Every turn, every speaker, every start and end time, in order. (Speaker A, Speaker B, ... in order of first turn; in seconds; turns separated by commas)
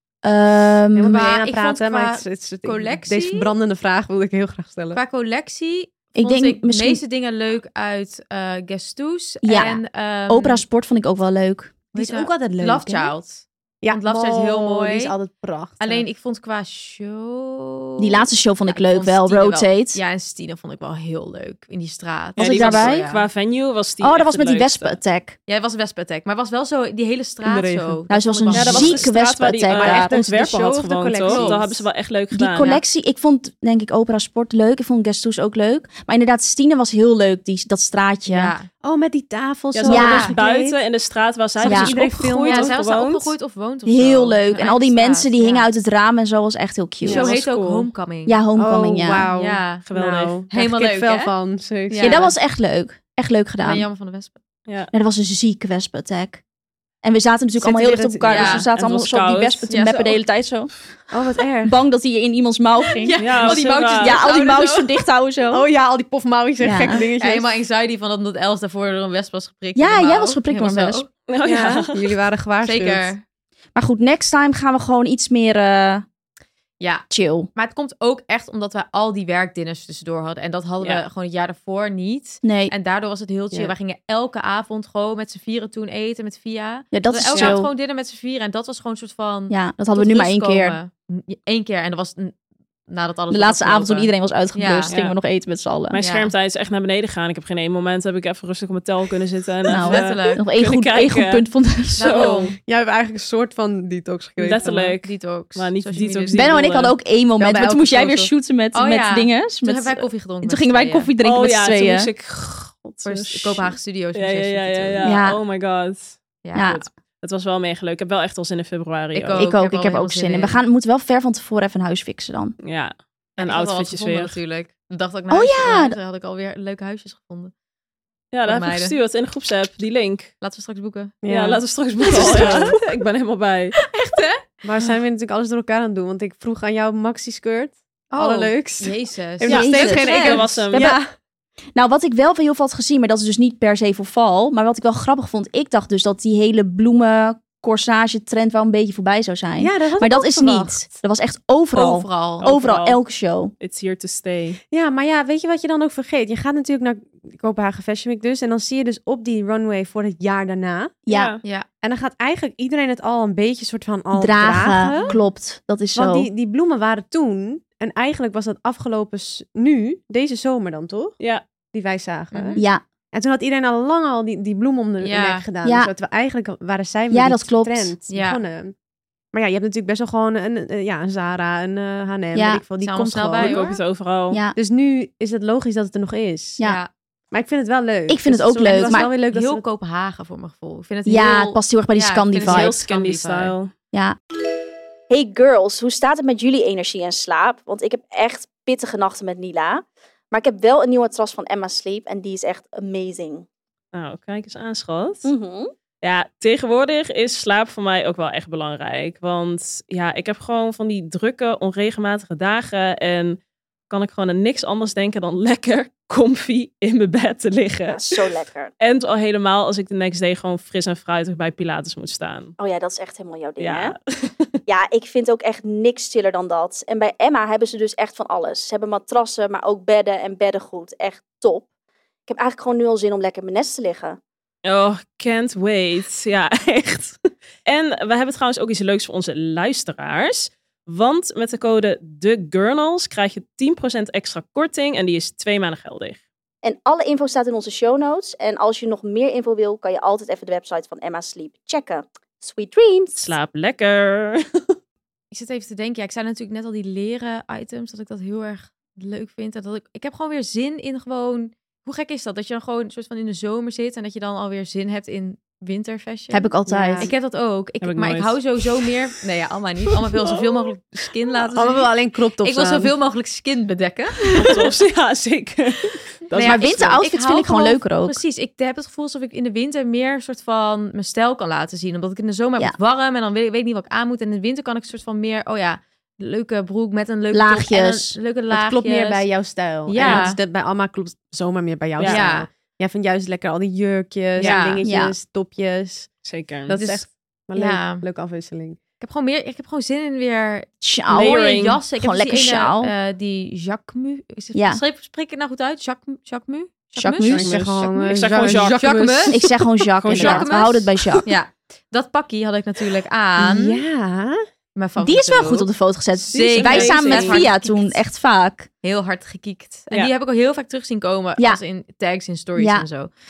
Speaker A: 0.2-1.3, Speaker B: 0.9-5.0, Speaker C: 1.1-3.5, Speaker C: 4.9-10.6, Speaker A: 6.2-7.0, Speaker A: 9.4-11.8, Speaker B: 11.9-13.1, Speaker C: 11.9-15.1, Speaker B: 13.8-16.1, Speaker C: 15.8-23.3, Speaker A: 18.0-20.0, Speaker A: 22.4-23.1, Speaker D: 22.4-25.0, Speaker A: 24.0-25.4, Speaker C: 25.5-29.1, Speaker B: 27.4-28.0, Speaker A: 28.1-30.1, Speaker D: 28.5-32.8, Speaker B: 29.7-31.8, Speaker C: 31.3-31.8, Speaker A: 32.3-38.5, Speaker C: 38.2-38.7, Speaker B: 38.8-40.8, Speaker D: 39.7-43.3, Speaker A: 39.9-40.3, Speaker C: 39.9-40.3, Speaker B: 41.6-42.7, Speaker A: 41.6-41.9, Speaker C: 42.4-45.7, Speaker A: 43.9-47.3, Speaker C: 47.0-48.4, Speaker D: 47.0-47.9, Speaker A: 48.2-49.3, Speaker B: 48.5-52.3, Speaker C: 49.3-49.8, Speaker D: 49.9-50.4, Speaker C: 50.5-51.3, Speaker C: 51.9-52.3, Speaker A: 52.0-53.8, Speaker C: 53.6-54.4, Speaker A: 54.9-56.4, Speaker A: 57.0-60.7, Speaker B: 57.6-58.6, Speaker C: 58.3-58.7, Speaker D: 58.7-59.7, Speaker C: 59.7-60.2, Speaker B: 61.1-61.8, Speaker A: 61.6-65.7, Speaker C: 63.0-65.0, Speaker D: 63.2-64.2, Speaker B: 65.5-67.5, Speaker A: 66.6-67.0, Speaker C: 67.2-71.1, Speaker A: 69.7-71.0, Speaker D: 71.3-72.1, Speaker B: 71.4-73.1, Speaker C: 72.6-73.2, Speaker A: 73.7-76.0, Speaker C: 76.8-92.3, Speaker A: 77.1-77.5, Speaker A: 82.4-82.7, Speaker A: 86.9-87.7, Speaker D: 87.3-87.6, Speaker A: 89.5-90.8, Speaker C: 92.9-94.9, Speaker A: 93.3-96.0, Speaker D: 94.9-95.2, Speaker D: 95.9-102.5, Speaker C: 96.0-96.3, Speaker A: 99.7-102.3, Speaker C: 99.7-100.4, Speaker C: 102.0-102.5, Speaker B: 102.6-104.9, Speaker D: 104.4-107.0, Speaker C: 105.0-106.5, Speaker A: 106.3-112.1, Speaker B: 107.4-108.1, Speaker C: 107.5-111.1, Speaker D: 111.2-119.5, Speaker C: 113.0-115.2, Speaker A: 115.0-115.4, Speaker C: 116.4-116.8, Speaker A: 116.5-116.8, Speaker C: 119.1-120.6, Speaker A: 119.3-122.5, Speaker D: 122.6-124.3, Speaker C: 123.4-127.5, Speaker A: 125.3-126.0, Speaker D: 128.3-130.3, Speaker C: 128.4-128.9, Speaker C: 130.4-131.1, Speaker B: 131.2-132.8, Speaker D: 131.3-133.8, Speaker C: 132.0-132.8, Speaker C: 133.8-134.4, Speaker B: 134.6-141.1, Speaker C: 138.1-140.5, Speaker D: 139.5-140.9, Speaker A: 139.5-141.0, Speaker A: 141.7-153.5, Speaker B: 149.6-150.9, Speaker C: 151.7-152.5, Speaker D: 152.4-153.0, Speaker D: 153.6-154.6, Speaker B: 154.7-161.0, Speaker A: 161.1-161.3, Speaker D: 161.1-161.4, Speaker B: 161.8-165.2, Speaker A: 164.1-166.3, Speaker B: 165.9-171.2, Speaker B: 171.7-178.7, Speaker C: 172.3-172.6, Speaker A: 172.6-172.8, Speaker C: 175.0-175.4, Speaker A: 175.6-175.9, Speaker A: 177.1-177.9, Speaker C: 178.1-178.4, Speaker B: 179.3-183.7, Speaker A: 182.3-182.6, Speaker C: 182.8-183.7, Speaker D: 183.4-184.4, Speaker A: 184.3-184.6, Speaker B: 184.5-186.6, Speaker C: 186.6-186.9, Speaker B: 187.3-189.6, Speaker A: 188.1-189.1, Speaker C: 188.6-193.5, Speaker A: 191.1-192.7, Speaker D: 192.4-193.7, Speaker A: 195.1-203.4, Speaker D: 203.9-205.3, Speaker A: 205.2-205.7, Speaker D: 206.0-213.4, Speaker D: 213.9-218.3, Speaker A: 217.9-218.7, Speaker D: 218.8-222.6, Speaker A: 222.6-223.9, Speaker D: 223.6-224.5, Speaker A: 224.7-231.7, Speaker A: 232.3-234.2, Speaker D: 234.6-246.2, Speaker A: 246.6-253.3, Speaker D: 253.2-254.4, Speaker C: 255.3-266.4, Speaker A: 266.3-267.1, Speaker B: 266.7-267.1, Speaker C: 267.0-274.6, Speaker D: 267.8-268.4, Speaker B: 271.5-272.9, Speaker D: 274.3-277.0, Speaker C: 276.3-289.2, Speaker A: 276.4-278.2, Speaker A: 287.3-288.2, Speaker B: 288.5-296.1, Speaker C: 289.9-290.4, Speaker D: 290.0-290.2, Speaker C: 292.0-292.5, Speaker C: 294.4-294.8, Speaker A: 294.8-295.1, Speaker D: 296.2-296.8, Speaker B: 296.7-298.8, Speaker C: 296.7-298.0, Speaker C: 299.0-309.4, Speaker A: 300.8-302.9, Speaker D: 301.1-301.8, Speaker A: 304.5-304.8, Speaker A: 306.9-307.5, Speaker B: 307.3-309.2, Speaker D: 307.3-309.4, Speaker A: 309.3-311.2, Speaker D: 310.0-311.2, Speaker C: 310.1-313.8, Speaker B: 313.4-314.4, Speaker C: 314.7-315.7, Speaker A: 315.0-318.7, Speaker D: 316.3-317.5, Speaker C: 316.3-318.0, Speaker C: 318.8-323.1, Speaker A: 322.6-322.9